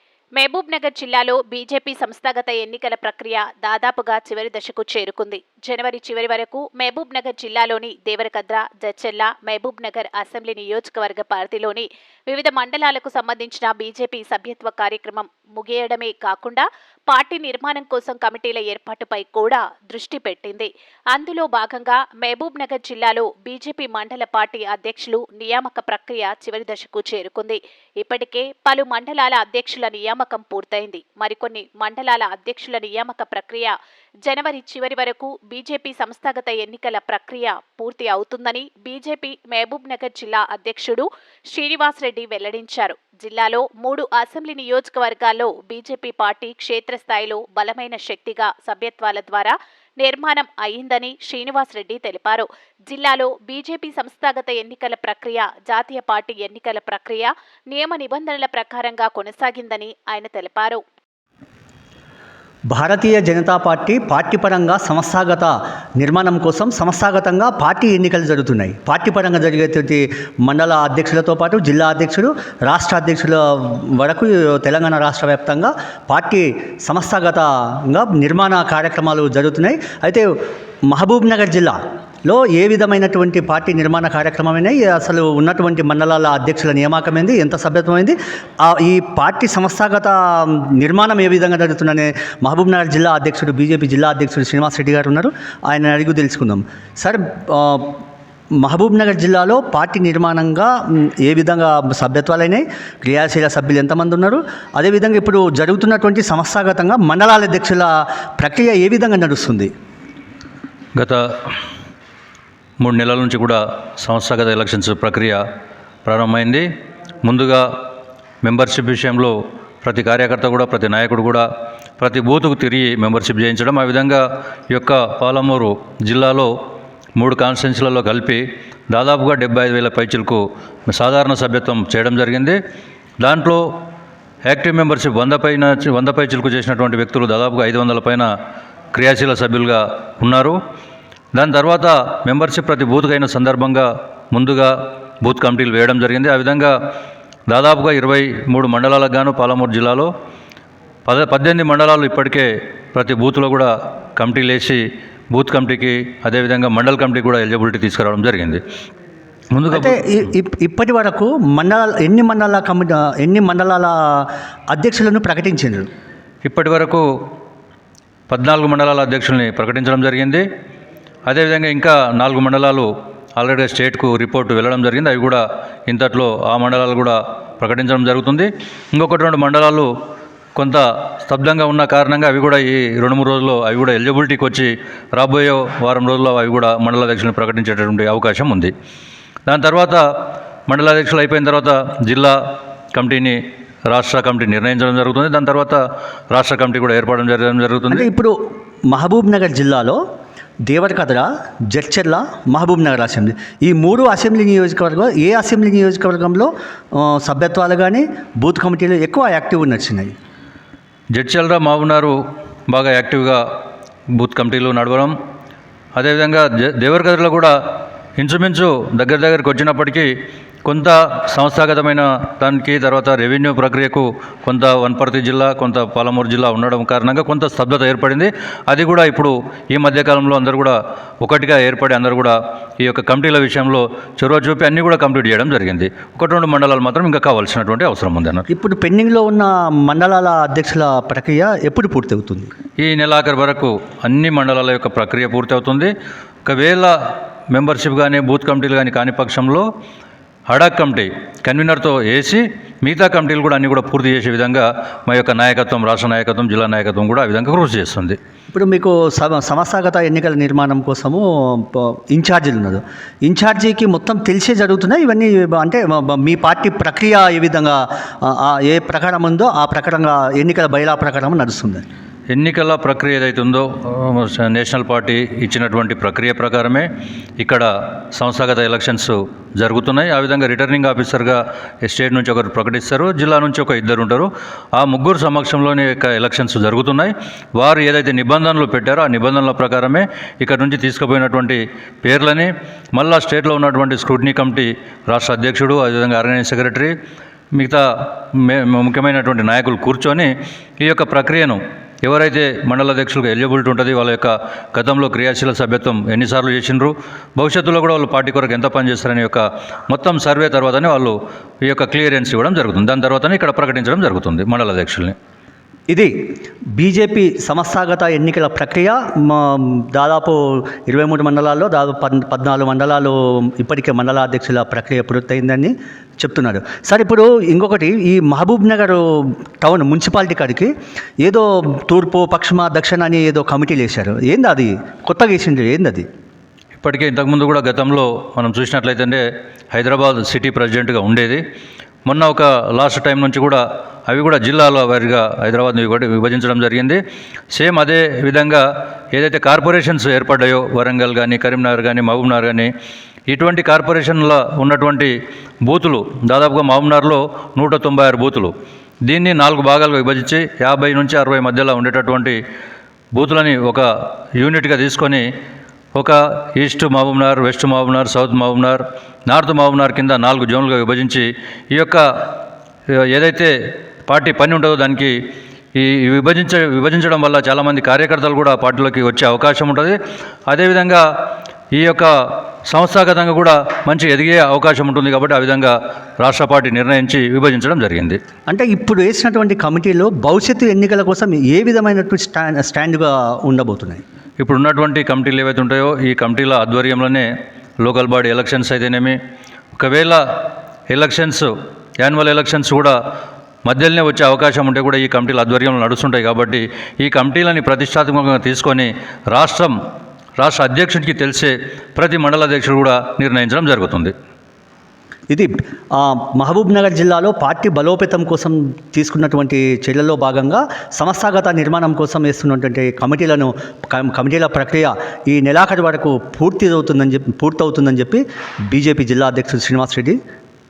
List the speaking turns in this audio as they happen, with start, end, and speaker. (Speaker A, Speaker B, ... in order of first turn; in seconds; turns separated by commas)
Speaker A: 0.3-33.7, Speaker A: 34.2-60.8, Speaker B: 62.7-80.3, Speaker B: 80.9-98.0, Speaker B: 98.6-109.7, Speaker C: 111.0-111.5, Speaker C: 112.8-115.4, Speaker C: 116.0-116.7, Speaker C: 117.2-117.7, Speaker C: 118.4-121.5, Speaker C: 122.0-126.5, Speaker C: 127.2-132.6, Speaker C: 133.2-133.6, Speaker C: 134.4-138.3, Speaker C: 138.9-140.6, Speaker C: 141.3-146.7, Speaker C: 147.5-150.1, Speaker C: 151.1-154.8, Speaker C: 155.3-158.6, Speaker C: 159.5-160.0, Speaker B: 159.7-165.9, Speaker C: 166.4-167.1, Speaker C: 168.3-170.4, Speaker C: 171.3-179.9, Speaker C: 180.6-188.7, Speaker C: 189.5-190.0, Speaker C: 190.7-192.3, Speaker C: 192.9-193.4, Speaker C: 193.9-195.8, Speaker C: 196.3-198.1, Speaker B: 197.9-198.3, Speaker B: 198.9-200.0, Speaker B: 200.7-210.1, Speaker C: 211.2-212.2, Speaker C: 212.7-213.4, Speaker C: 214.2-215.1, Speaker C: 215.9-217.5, Speaker C: 218.2-220.1, Speaker C: 220.6-238.4, Speaker B: 238.5-242.5, Speaker C: 242.8-245.9, Speaker C: 246.4-246.9, Speaker C: 247.5-249.7, Speaker C: 250.5-258.2, Speaker B: 258.5-271.8, Speaker C: 272.3-276.9, Speaker C: 277.4-296.9, Speaker C: 297.5-315.1, Speaker B: 315.9-316.1, Speaker B: 316.7-330.7, Speaker B: 331.2-336.1, Speaker C: 336.8-341.4, Speaker C: 342.1-347.0, Speaker C: 347.5-352.7, Speaker C: 353.3-358.5, Speaker C: 359.1-362.4, Speaker C: 363.1-363.9, Speaker C: 364.4-365.2, Speaker C: 365.9-372.0, Speaker C: 373.1-373.5, Speaker C: 374.1-375.1, Speaker C: 375.7-379.9, Speaker C: 380.5-381.0, Speaker C: 381.7-382.1, Speaker C: 382.7-388.2, Speaker B: 388.5-394.0, Speaker C: 394.4-397.3, Speaker C: 397.8-399.1, Speaker C: 399.8-400.2, Speaker C: 400.9-401.5, Speaker C: 402.0-402.9, Speaker C: 403.6-409.7, Speaker C: 410.4-414.1, Speaker B: 415.3-430.2